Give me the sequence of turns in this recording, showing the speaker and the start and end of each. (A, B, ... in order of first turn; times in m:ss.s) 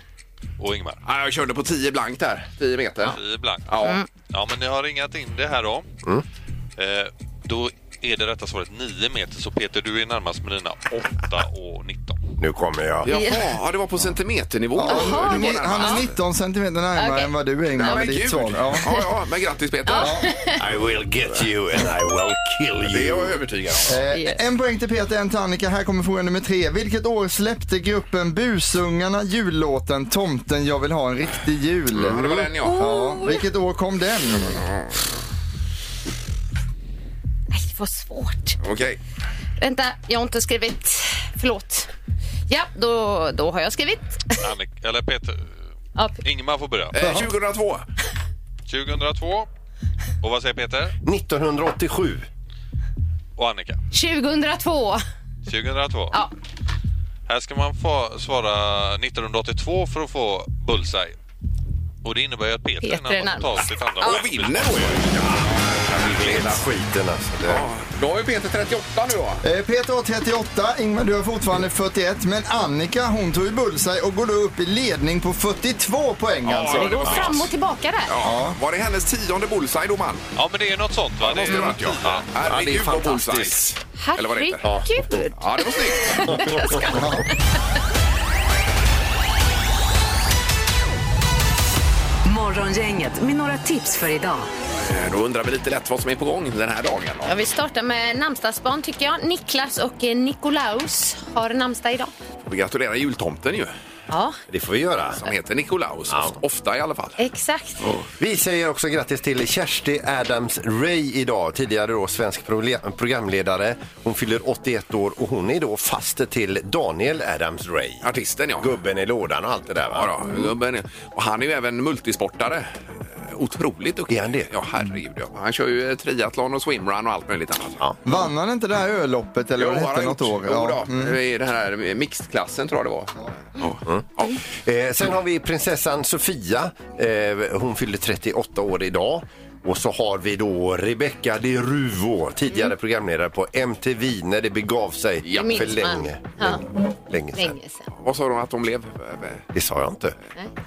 0:00.6-0:01.0 A
0:01.0-0:04.0 B
0:03.0-0:05.9 A
0:06.8-0:12.2 A
0:12.4-0:13.1 C
0:13.0-0:16.2 B
0:13.1-0:13.5 D
0:14.8-0:18.9 E
0:14.9-0:16.0 D
0:17.0-0:18.2 D
0:17.8-0:20.3 B
0:19.9-0:20.6 D
0:20.0-0:20.3 E
0:20.6-0:23.4 C
0:22.8-0:24.0 B
0:23.9-0:34.6 E
0:24.1-0:24.4 D
0:31.9-0:32.8 B
0:32.1-0:32.4 C
0:32.6-0:33.5 D
0:34.5-0:34.9 B
0:37.5-0:38.6 D
0:38.6-0:39.0 B
0:39.6-0:41.9 D
0:42.5-0:44.4 D
0:44.4-0:45.5 A
0:46.0-0:46.2 D
0:46.2-0:47.2 A
0:46.9-0:47.8 B
0:48.7-0:49.5 A
0:50.2-0:51.0 A
0:51.0-0:52.3 C
0:53.4-0:53.8 A
0:53.9-0:55.0 D
0:55.5-0:56.2 A
0:57.3-1:01.2 A
1:02.0-1:05.1 A
1:02.8-1:03.7 D
1:04.0-1:06.7 B
1:06.1-1:07.7 C
1:07.5-1:09.4 B
1:09.4-1:17.2 E
1:16.4-1:17.5 B
1:16.7-1:18.1 D
1:17.1-1:17.4 C
1:18.1-1:20.3 B
1:18.2-1:18.6 E
1:20.4-1:22.3 A
1:21.2-1:24.7 B
1:22.5-1:23.7 C
1:24.0-1:27.3 D
1:24.6-1:25.0 C
1:25.4-1:26.4 B
1:26.3-1:26.8 C
1:26.9-1:27.3 E
1:32.2-1:34.5 F
1:34.8-1:37.3 B
1:37.3-1:42.1 D
1:42.5-1:43.7 B
1:44.1-1:44.4 D
1:44.5-1:45.2 C
1:45.2-1:47.2 B
1:46.1-1:46.4 C
1:47.2-1:47.8 D
1:48.2-1:58.1 C
1:58.0-1:58.8 B
1:58.6-2:00.4 C
1:59.9-2:02.7 B
2:03.2-2:08.2 B
2:04.1-2:04.5 C
2:08.0-2:11.2 E
2:09.6-2:14.4 B
2:13.9-2:27.6 C
2:25.2-2:25.8 B
2:25.3-2:26.6 D
2:27.3-2:27.8 D
2:28.0-2:29.5 B
2:29.5-2:30.2 C